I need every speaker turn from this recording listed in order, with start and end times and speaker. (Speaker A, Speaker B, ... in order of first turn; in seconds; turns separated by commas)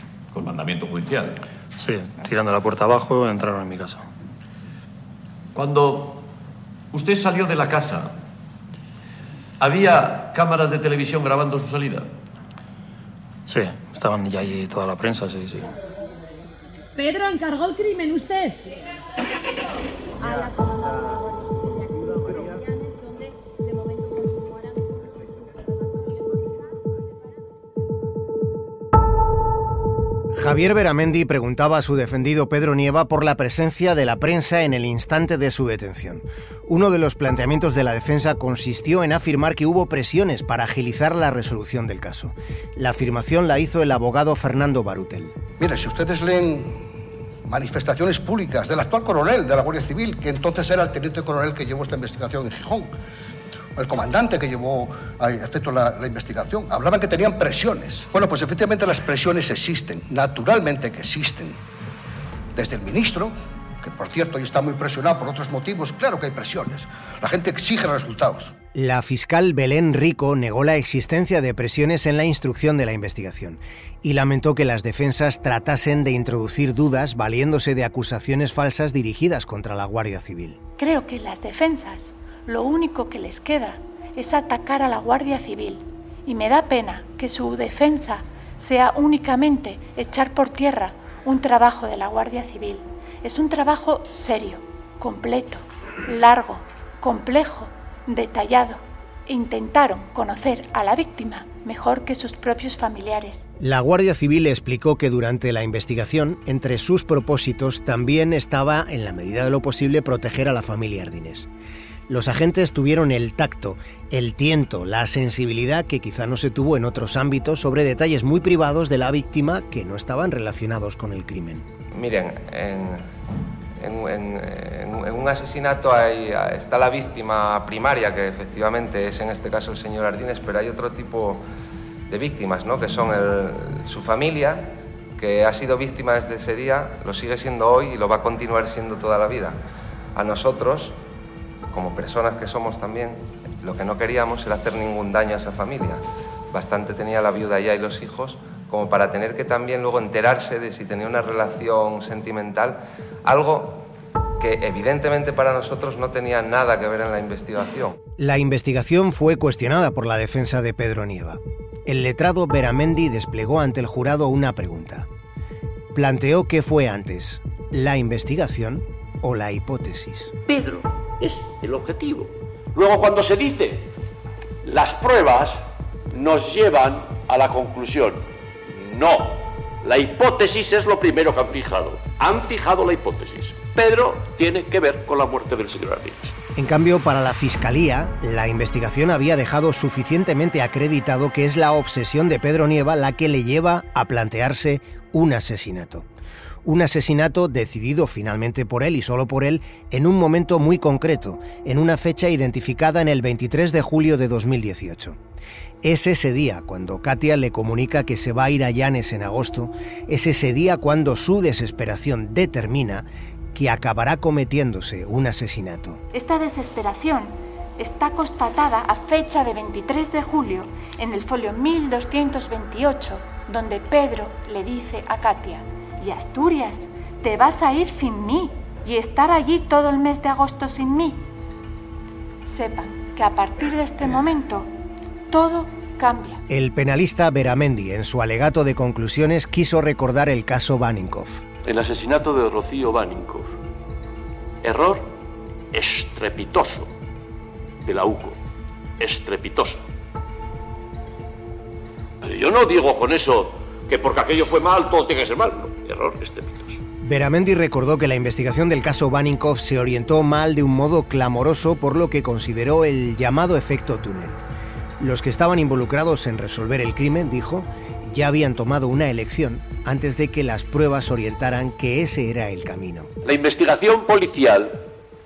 Speaker A: 0.3-1.4, Speaker B: 1.8-4.1, Speaker A: 5.5-6.3, Speaker A: 6.9-8.2, Speaker A: 9.6-12.1, Speaker B: 13.5-15.7, Speaker C: 17.0-18.7, Speaker C: 20.2-23.1, Speaker C: 23.6-26.4, Speaker D: 30.3-45.4, Speaker E: 45.6-46.9, Speaker E: 47.5-52.9, Speaker E: 53.8-61.6, Speaker E: 62.5-68.5, Speaker D: 68.7-80.6, Speaker F: 80.8-103.4, Speaker D: 103.6-111.5, Speaker D: 112.1-121.7, Speaker G: 121.9-123.0, Speaker G: 123.8-131.4, Speaker G: 132.1-139.6, Speaker G: 140.2-140.9, Speaker G: 141.7-153.9, Speaker G: 154.4-158.0, Speaker D: 158.2-165.1, Speaker D: 165.9-170.3, Speaker A: 170.5-173.9, Speaker A: 174.6-186.3, Speaker D: 186.6-196.1, Speaker D: 196.7-205.2, Speaker D: 205.8-216.0, Speaker F: 216.1-231.2, Speaker F: 232.5-234.7, Speaker F: 235.3-236.4, Speaker D: 236.5-241.4, Speaker A: 241.6-243.6, Speaker A: 244.6-245.1, Speaker A: 245.7-246.9, Speaker A: 247.8-248.4, Speaker A: 249.0-249.8, Speaker A: 252.2-256.8, Speaker D: 257.0-264.4, Speaker D: 265.0-273.1, Speaker A: 273.2-274.8